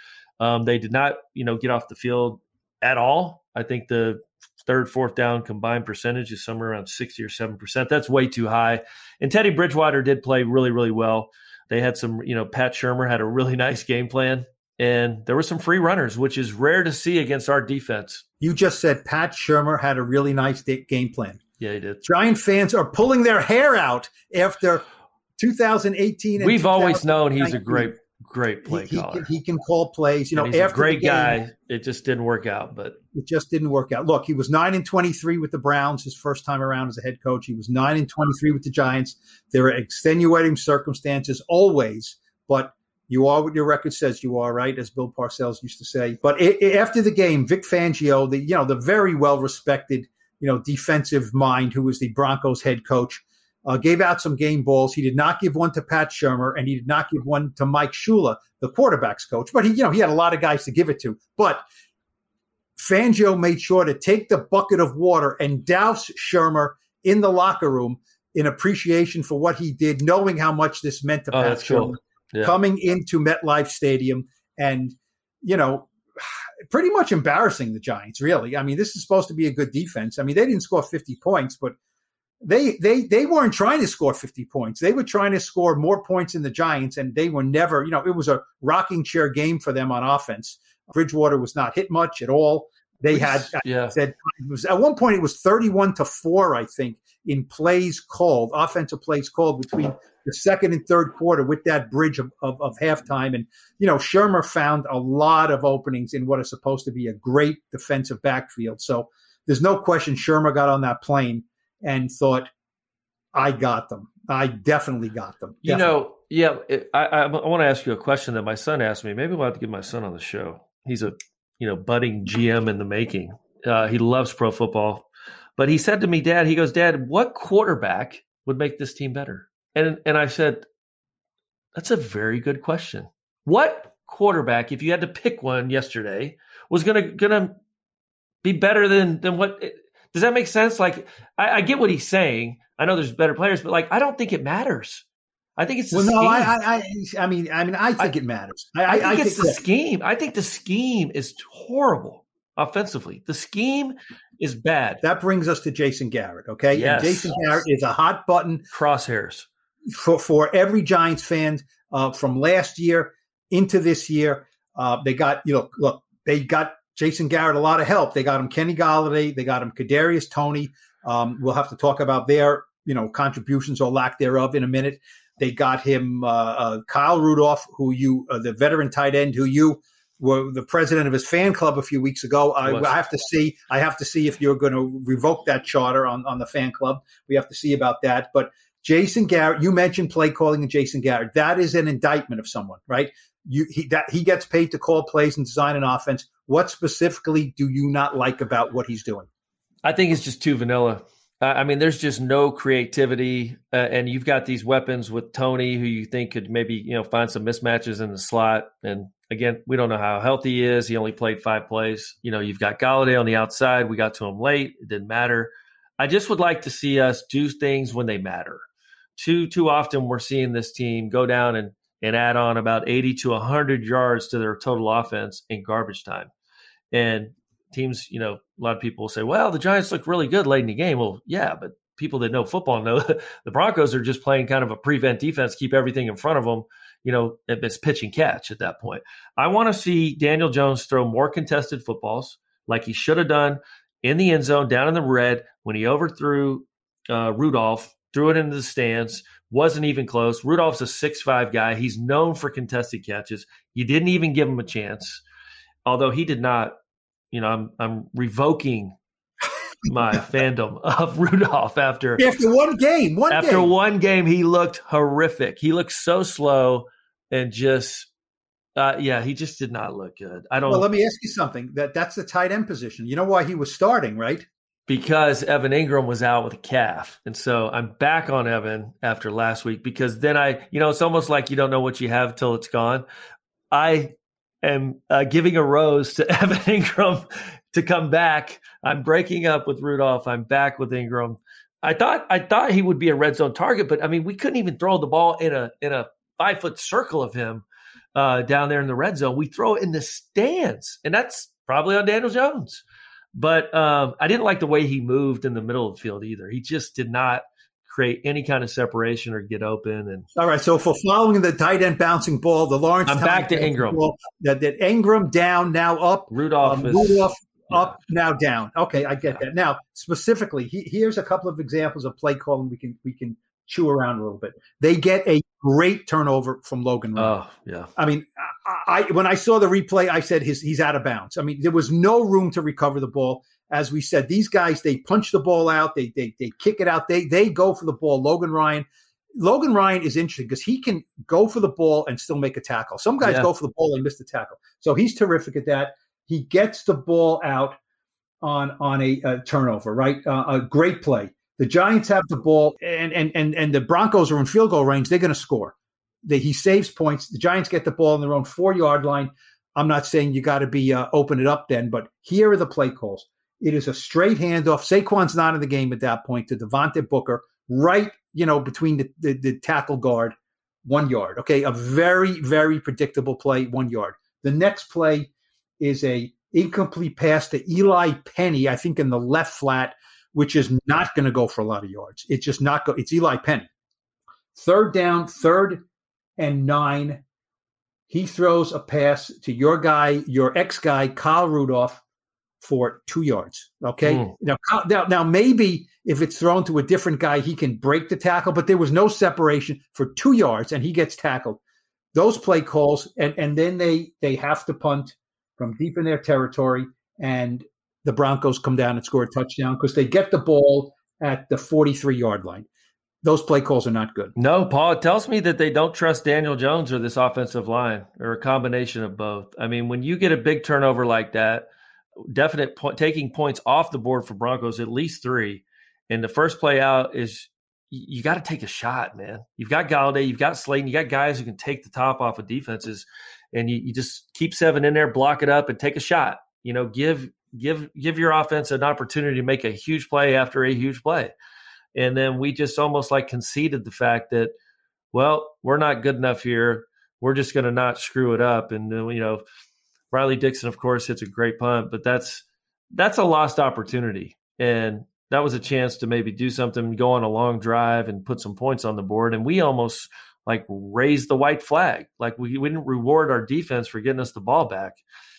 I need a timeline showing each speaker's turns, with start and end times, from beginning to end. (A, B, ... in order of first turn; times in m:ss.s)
0:00.4-0:18.2 A
0:18.4-0:21.4 B
0:21.6-0:22.0 A
0:22.0-0:24.8 B
0:25.4-0:27.9 B
0:26.4-0:29.3 A
0:28.6-0:31.4 B
0:30.4-0:33.0 A
0:33.1-1:01.6 B
1:02.8-1:21.8 B
1:11.3-1:12.6 A
1:22.4-1:52.5 B
1:33.1-1:34.0 A
1:53.3-1:55.9 B
1:55.6-2:10.7 A
2:11.8-2:17.6 A
2:18.4-2:25.0 A
2:25.6-2:26.6 A
2:25.9-2:29.6 B
2:28.9-2:35.0 A
2:35.0-2:38.6 B
2:36.7-2:37.4 A
2:38.7-2:39.5 A
2:39.9-3:19.3 B
3:02.6-3:03.0 A
3:19.8-3:38.6 A
3:39.2-3:46.3 A
3:46.9-4:15.2 A
4:15.8-4:16.8 A
4:17.3-4:19.0 A
4:19.9-4:22.2 A
4:22.2-4:23.7 B
4:23.3-4:28.1 A
4:28.8-4:30.9 A
4:30.7-4:34.5 B
4:34.9-4:43.0 A
4:43.7-5:02.8 A
5:03.4-5:10.3 A
5:10.4-5:27.3 B
5:13.1-5:14.0 A
5:16.3-5:18.0 A
5:27.2-5:27.9 A
5:28.0-5:47.8 B
5:43.2-5:43.5 A
5:48.4-6:23.7 B
6:24.6-6:25.8 B
6:26.4-6:27.2 B
6:28.1-6:32.0 B
6:32.6-6:41.6 B
6:34.0-6:34.4 A
6:42.1-6:52.7 B
6:53.2-6:54.3 B
6:54.4-7:01.7 A
7:02.3-7:21.3 A
7:22.0-7:24.5 A
7:25.1-7:29.4 A
7:30.1-7:45.0 A